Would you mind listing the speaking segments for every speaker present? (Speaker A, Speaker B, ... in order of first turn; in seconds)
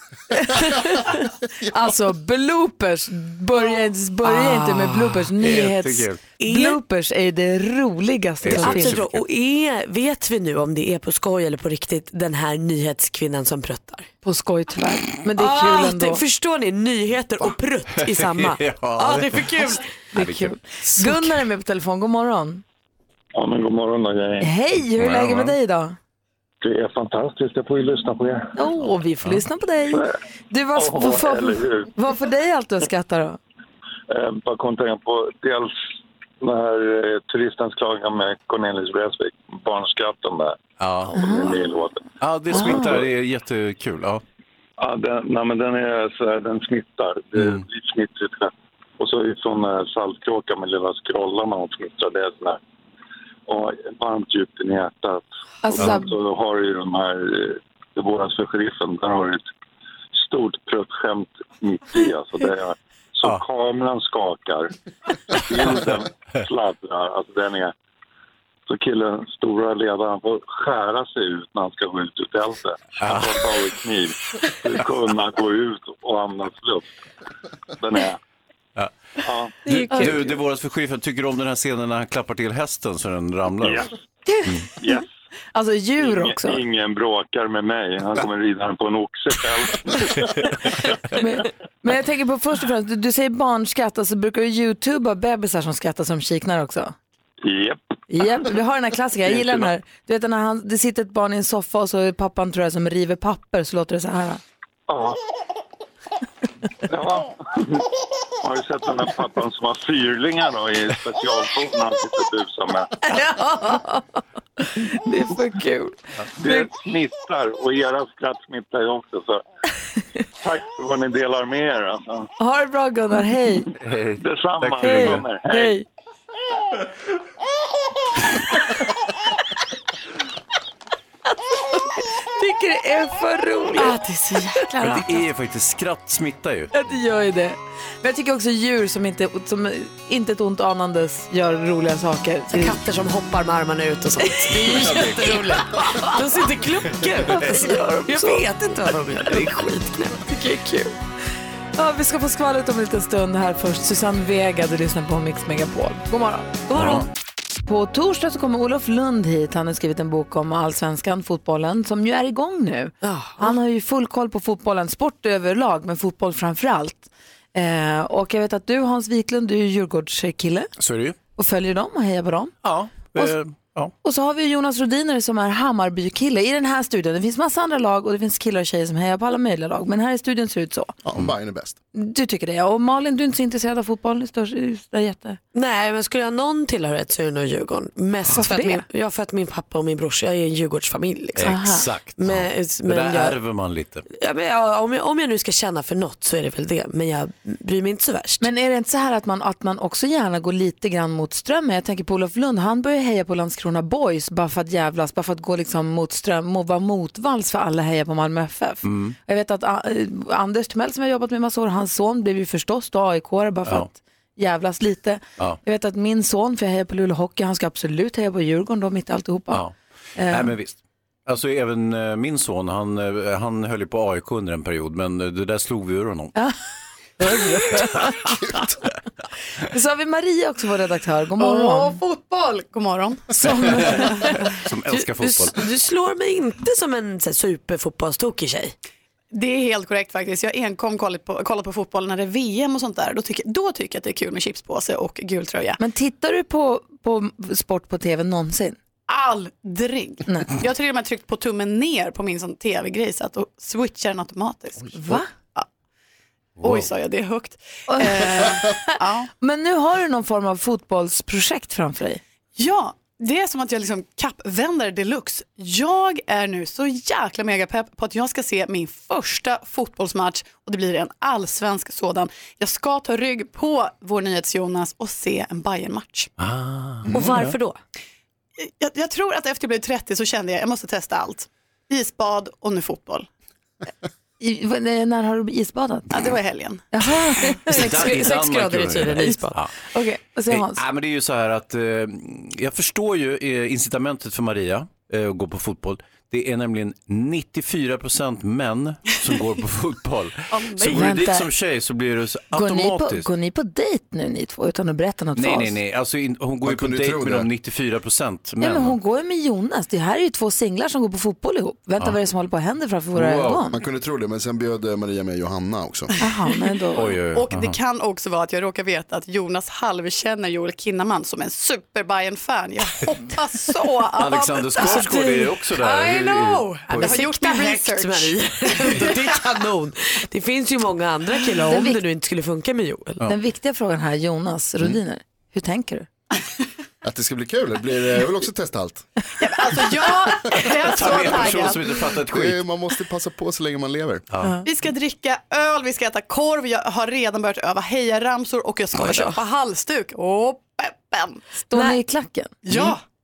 Speaker A: 0.3-9.0, 14.2-16.2, 20.1-22.6, 24.4-25.9, 28.6-33.4, 41.1-41.6, 42.5-43.0, 55.6-56.1, 79.9-80.3, 84.3-84.5, 85.5-86.6, 91.2-96.9, 98.1-104.4, 113.0-116.7, 122.4-123.7, 124.8-125.8, 131.7-135.2, 136.7-142.8, 144.2-146.2, 147.3-148.4, 151.8-156.5, 157.7-170.7, 171.4-172.5, 174.0-180.9, 181.9-185.4, 188.3-188.8, 191.4-191.8, 198.4-219.6, 220.2-220.5, 227.2-228.1, 229.7-232.0, 233.3-234.3, 245.8-248.8, 250.2-250.5, 254.9-255.3, 257.9-262.2, 284.4-286.2, 286.9-287.8, 289.9-290.8, 300.9-301.5, 302.5-305.8, 308.6-313.7, 316.2-317.1, 331.7-332.0, 333.2-336.1, 351.7-352.6
Speaker B: 4.2-5.3, 6.4-6.8, 8.5-14.1, 15.4-19.8, 142.5-150.9, 156.7-157.0, 163.0-163.5, 185.5-193.4, 194.1-198.4, 234.9-238.7, 277.1-277.8, 287.7-289.6, 324.8-325.5, 326.9-333.2, 348.9-349.4, 351.7-352.0
Speaker C: 5.4-6.2, 8.4-9.2, 18.0-20.6, 24.9-25.6, 40.8-41.1, 42.2-44.2, 47.4-47.6, 73.0-73.4, 79.6-83.9, 123.8-125.2, 134.8-136.7, 156.8-157.1, 170.8-171.2, 172.6-173.9, 191.3-194.0, 208.8-209.2, 219.5-219.8, 220.3-226.3, 227.3-228.0, 233.8-235.6, 256.6-256.9, 276.4-277.6, 287.7-289.7, 290.5-303.3, 305.4-309.0, 313.1-313.6, 316.9-317.8, 324.1-327.2, 340.6-342.6, 344.3-344.6
Speaker D: 23.3-24.5, 26.6-28.5, 30.8-31.9, 34.1-35.7, 36.4-40.6, 41.1-42.0, 42.6-42.9, 44.8-52.6, 53.5-59.4, 60.1-64.7, 65.3-67.7, 68.7-76.8, 77.8-78.2, 79.2-79.5, 83.6-83.9, 84.8-85.1, 86.0-90.9, 97.4-97.8, 99.3-99.7, 104.9-105.2, 106.8-107.8, 108.4-112.9, 116.4-119.4, 120.4-122.3, 124.2-125.8
Speaker E: 181.0-181.8, 306.6-307.5, 313.7-316.1, 337.0-339.1, 341.1-344.2
Speaker F: 231.4-234.3, 239.3-245.8, 249.1-255.7, 256.6-259.3, 262.6-276.3, 278.6-283.3, 286.1-286.9, 300.5-300.9, 317.3-325.2, 325.8-328.4, 339.4-342.1, 344.6-351.4, 352.6-353.0